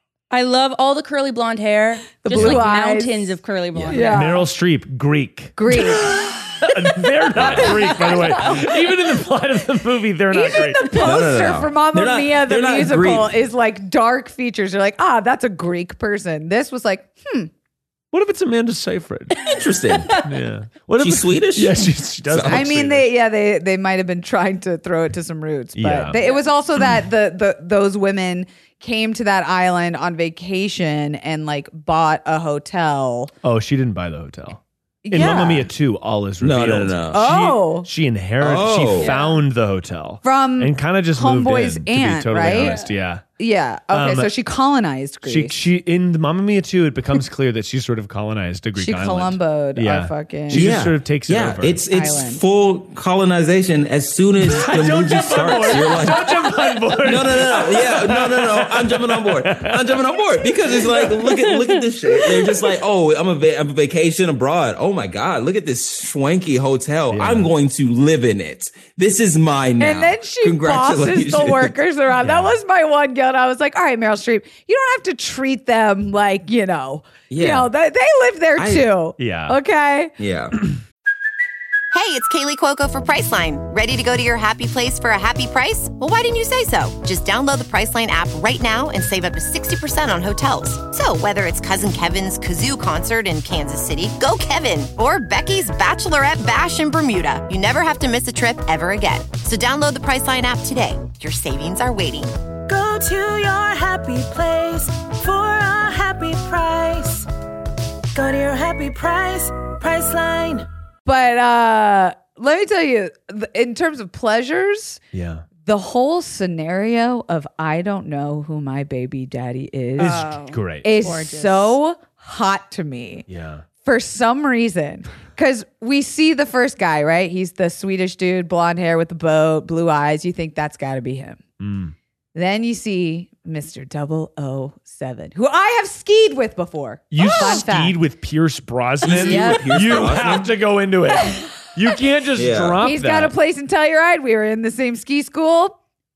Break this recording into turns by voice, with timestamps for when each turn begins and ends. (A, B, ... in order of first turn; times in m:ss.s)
0:00.3-0:04.3 A
0:02.2-0:03.4 B
0:02.3-0:02.6 C
0:03.8-0:04.1 D
0:03.9-0:04.5 B
0:04.1-0:11.1 C
0:05.6-0:06.2 B
0:07.4-0:07.8 D
0:07.6-0:08.6 B
0:10.3-0:17.5 B
0:11.0-0:13.4 D
0:18.1-0:19.5 C
0:19.4-0:20.2 D
0:20.2-0:23.1 C
0:21.0-0:22.7 D
0:22.5-0:33.3 B
0:25.8-0:26.2 C
0:33.4-0:34.6 C
0:35.0-0:35.7 B
0:35.1-0:43.2 C
0:36.4-0:37.3 D
0:37.1-0:37.9 B
0:38.4-0:39.1 D
0:39.0-0:39.4 B
0:40.2-0:42.8 B
0:42.6-0:42.9 A
0:43.4-0:45.6 B
0:43.9-0:44.3 C
0:45.2-0:51.8 C
0:48.8-0:50.8 B
0:50.5-1:11.8 D
0:51.9-0:52.4 B
0:54.4-0:59.9 C
1:01.2-1:02.5 A
1:07.1-1:07.5 C
1:09.8-1:20.1 B
1:12.2-1:12.6 C
1:17.3-1:17.7 D
1:18.6-1:18.9 D
1:19.2-1:19.6 C
1:20.2-1:20.6 D
1:21.9-1:42.4 E
1:42.7-1:47.3 F
1:48.1-1:50.7 F
1:51.0-1:55.0 B
1:55.1-1:55.4 C
1:55.6-2:00.3 B
2:00.0-2:01.8 A
2:00.0-2:00.9 C
2:00.8-2:03.3 B
2:03.3-2:03.6 C
2:03.8-2:11.4 B
2:11.6-2:11.9 C
2:12.4-2:18.0 B
2:17.1-2:23.3 C
2:19.0-2:20.5 D
2:19.2-2:20.0 B
2:22.4-2:22.8 D
2:22.8-2:25.8 B